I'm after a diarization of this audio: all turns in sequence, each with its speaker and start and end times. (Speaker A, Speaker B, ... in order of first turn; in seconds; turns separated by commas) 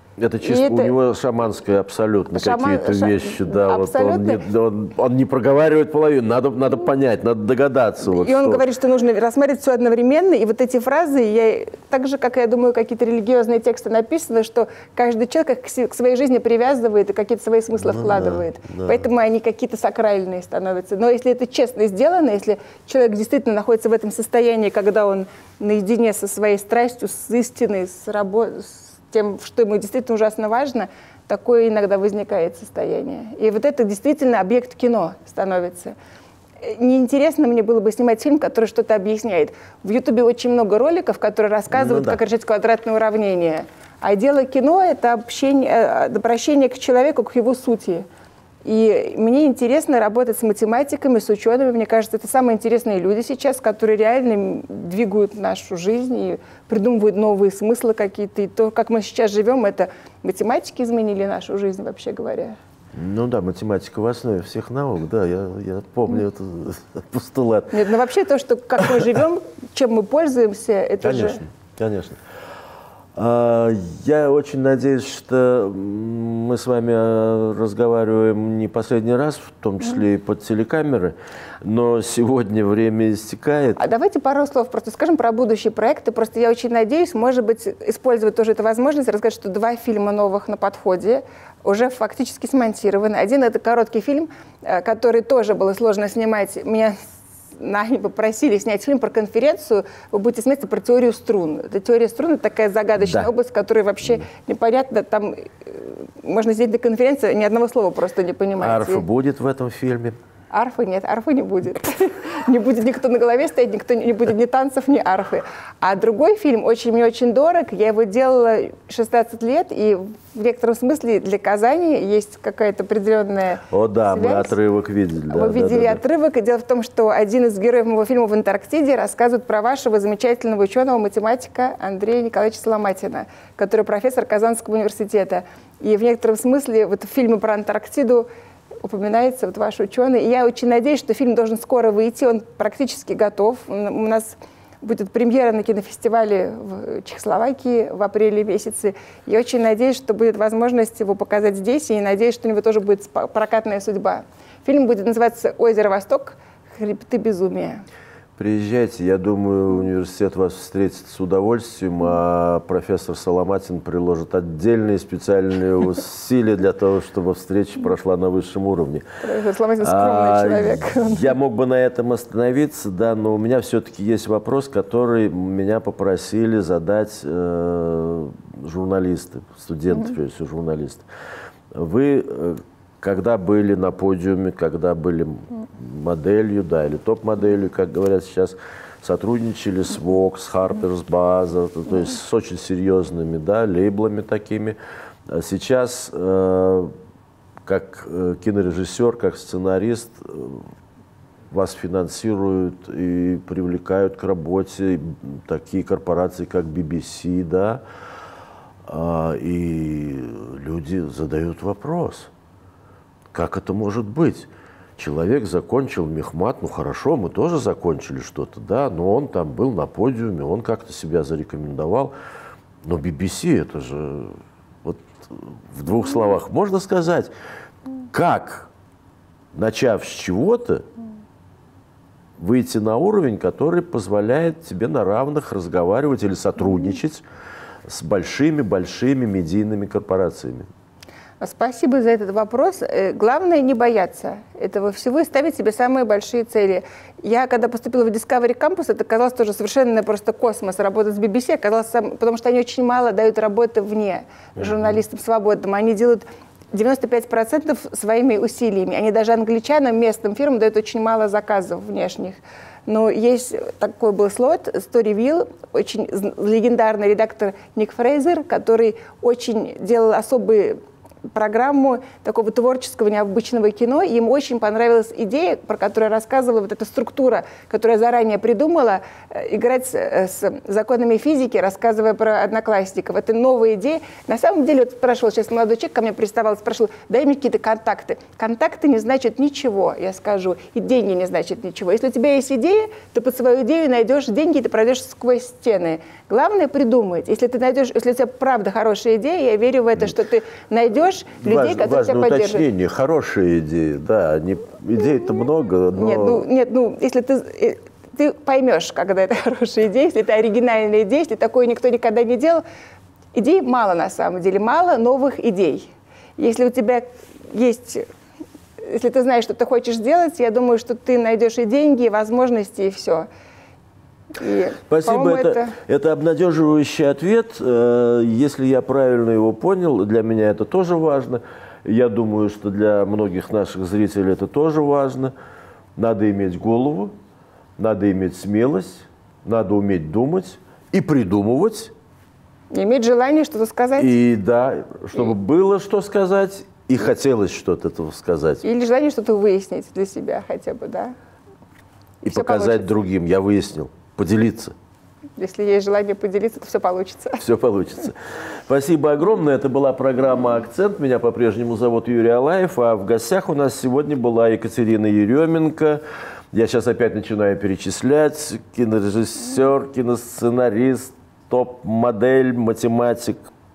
Speaker A: 0.2-8.6, Speaker B: 0.4-0.9, Speaker B: 2.3-4.4, Speaker B: 8.0-35.9, Speaker A: 17.8-19.1, Speaker B: 36.6-48.0, Speaker A: 41.7-42.2, Speaker B: 48.6-62.5, Speaker A: 62.9-67.7, Speaker B: 67.7-71.4, Speaker A: 71.0-72.2, Speaker A: 73.2-83.8, Speaker B: 83.8-97.0, Speaker B: 97.6-109.0, Speaker A: 103.0-103.3, Speaker A: 108.6-110.2, Speaker B: 110.5-124.5, Speaker A: 123.7-126.0, Speaker B: 125.3-138.3, Speaker B: 138.8-157.8, Speaker A: 158.4-169.0, Speaker B: 169.2-171.3, Speaker A: 169.8-181.1, Speaker A: 181.7-194.8, Speaker A: 195.3-196.9, Speaker A: 197.6-200.7, Speaker A: 201.5-207.8, Speaker A: 208.8-212.3, Speaker A: 213.3-222.1, Speaker A: 222.8-227.3, Speaker A: 228.1-228.7, Speaker A: 229.5-230.9, Speaker A: 232.4-237.2, Speaker A: 237.9-240.7, Speaker B: 241.4-270.8, Speaker A: 254.6-255.0, Speaker B: 271.3-302.6, Speaker A: 301.4-306.4, Speaker B: 305.9-312.6, Speaker B: 313.3-318.0, Speaker B: 318.8-323.3, Speaker B: 324.3-325.8, Speaker A: 324.9-335.3, Speaker A: 335.9-337.1, Speaker A: 337.8-341.9, Speaker B: 342.7-344.1, Speaker A: 344.0-348.6, Speaker B: 348.6-351.1, Speaker B: 352.2-352.9, Speaker A: 352.2-354.7, Speaker B: 355.4-357.4, Speaker A: 357.4-373.5